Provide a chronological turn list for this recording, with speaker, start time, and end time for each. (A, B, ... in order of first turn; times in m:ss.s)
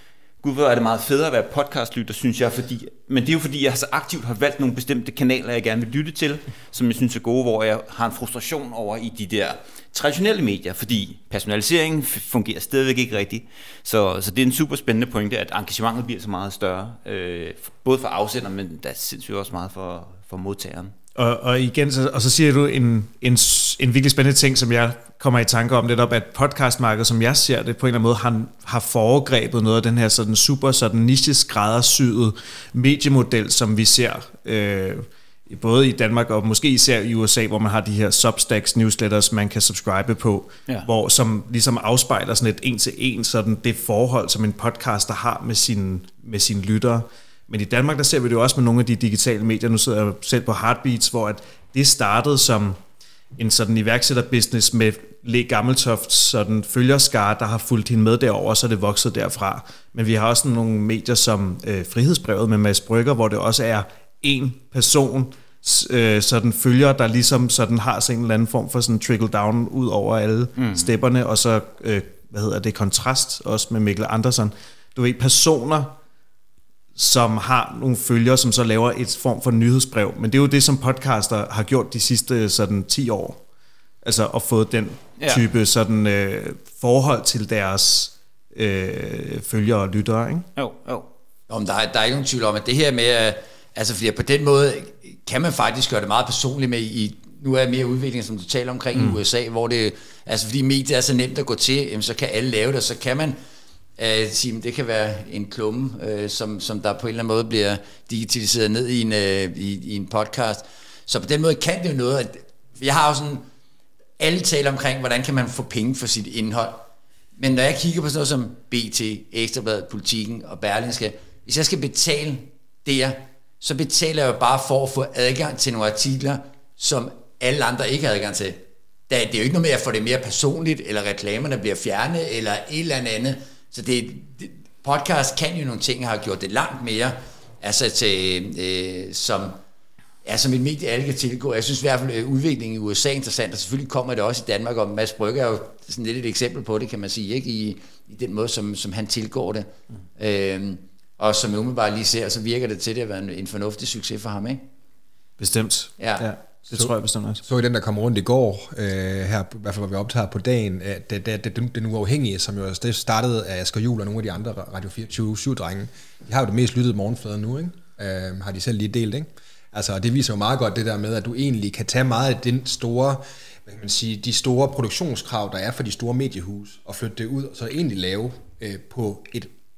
0:00.4-0:20.9 A
0:21.1-0:52.8 B
0:53.3-1:15.9 B
1:10.6-1:10.9 A
1:17.0-1:23.4 B
1:24.0-1:30.5 B
1:25.2-1:25.4 A
1:30.6-1:31.1 A
1:31.5-1:43.4 C
1:44.0-1:53.4 C
1:54.2-2:19.6 C
2:20.2-2:34.6 C
2:35.4-2:37.4 B
2:36.0-2:36.3 C
2:37.4-2:59.5 D